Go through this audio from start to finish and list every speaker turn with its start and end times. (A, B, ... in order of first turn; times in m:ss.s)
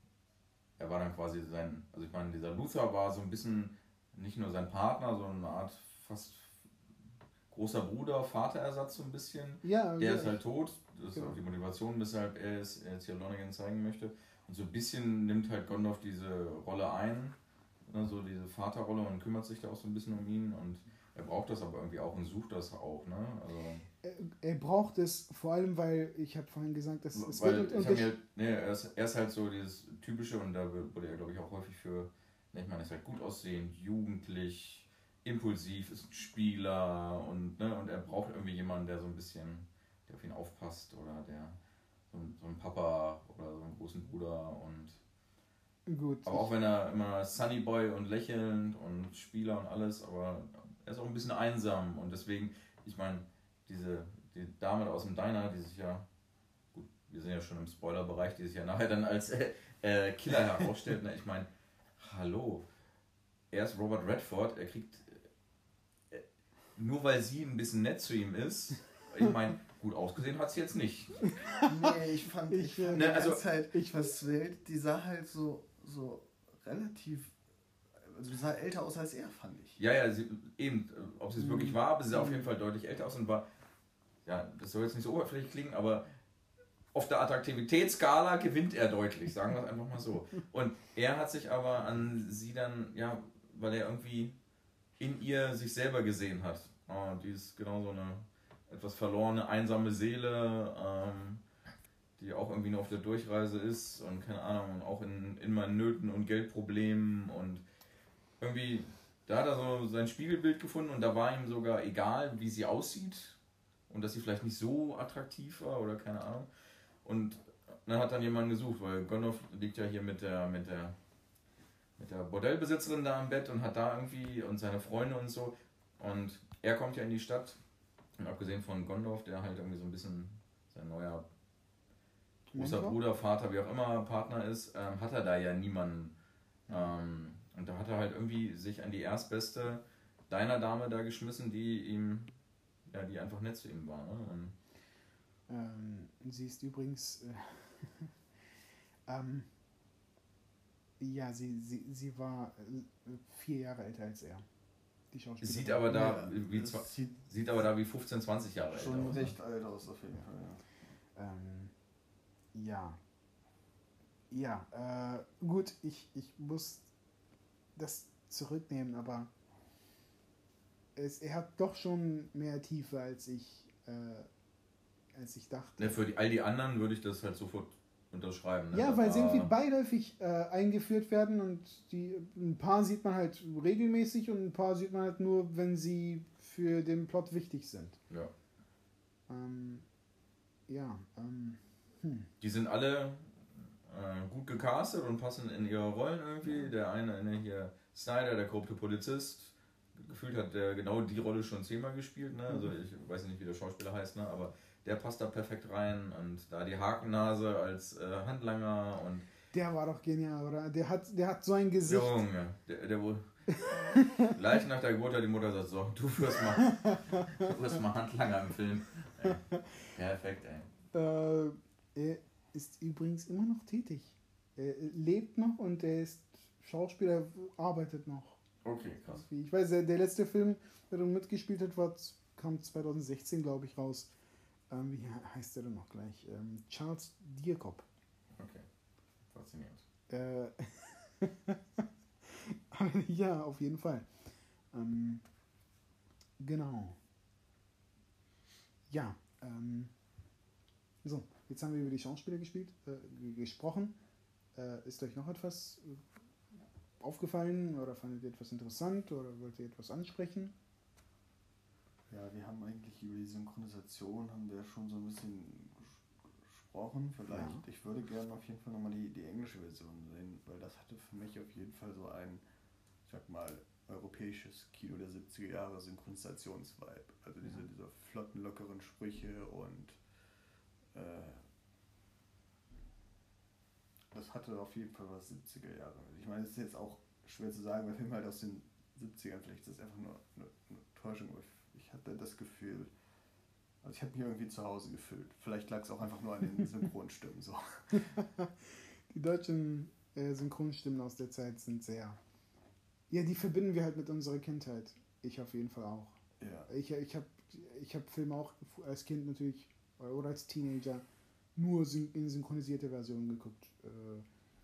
0:00.8-0:06.7 A
0:07.5-0:17.4 A
0:09.6-0:10.4 B
0:17.9-0:23.8 A
0:24.0-0:28.1 B
0:27.1-0:41.6 A
0:42.1-0:45.0 A
0:45.9-0:46.5 B
0:46.3-0:56.1 A
0:56.7-1:02.7 A
1:03.5-1:05.3 A
1:06.8-1:11.2 A
1:11.2-1:12.0 B
1:11.6-1:17.3 C
1:12.5-1:14.1 B
1:12.9-1:13.4 A
1:18.0-1:19.8 C
1:19.8-1:23.5 A
1:21.4-1:22.4 B
1:24.2-1:26.1 A
1:26.9-1:34.4 A
1:35.0-1:41.4 A
1:42.2-1:47.6 A
1:48.4-1:56.5 A
1:57.0-2:01.0 A
2:02.0-2:07.6 A
2:08.2-2:11.3 A
2:12.5-2:13.0 B
2:12.6-2:16.2 A
2:16.7-2:22.4 A
2:22.9-2:24.6 A
2:25.5-2:28.1 B
2:29.1-2:29.5 B
2:31.0-2:34.4 B
2:35.1-2:35.9 B
2:35.4-2:39.4 A
2:35.9-2:37.2 C
2:38.7-2:40.7 C
2:41.2-2:41.7 B
2:42.5-2:43.0 B
2:44.3-2:46.9 B
2:47.8-2:49.3 B
2:51.0-2:54.3 B
2:55.1-2:56.0 B
2:55.8-2:59.5 A
2:58.7-3:08.0 B
3:09.3-3:09.9 B
3:10.7-3:12.3 B
3:12.4-3:29.3 A
3:29.5-3:32.2 B
3:31.8-3:40.7 A
3:33.5-3:34.4 B
3:36.6-3:37.5 B
3:39.2-3:39.6 B
3:40.9-3:48.4 B
3:48.6-3:49.2 A
3:49.1-3:54.1 B
3:54.7-3:57.9 B
3:58.4-3:58.7 A
3:59.3-3:59.8 A
4:00.1-4:04.1 B
4:04.7-4:05.2 B
4:06.4-4:07.0 B
4:08.9-4:09.9 B
4:11.0-4:14.0 B
4:14.6-4:16.0 B
4:17.0-4:20.6 B
4:22.1-4:32.4 C
4:27.3-4:27.6 B
4:33.1-4:40.0 C
4:40.9-4:41.4 C
4:44.1-4:52.9 C
4:53.8-4:57.9 C
4:57.9-5:02.2 B
5:03.1-5:11.0 B
5:06.4-5:06.7 C
5:11.6-5:14.3 B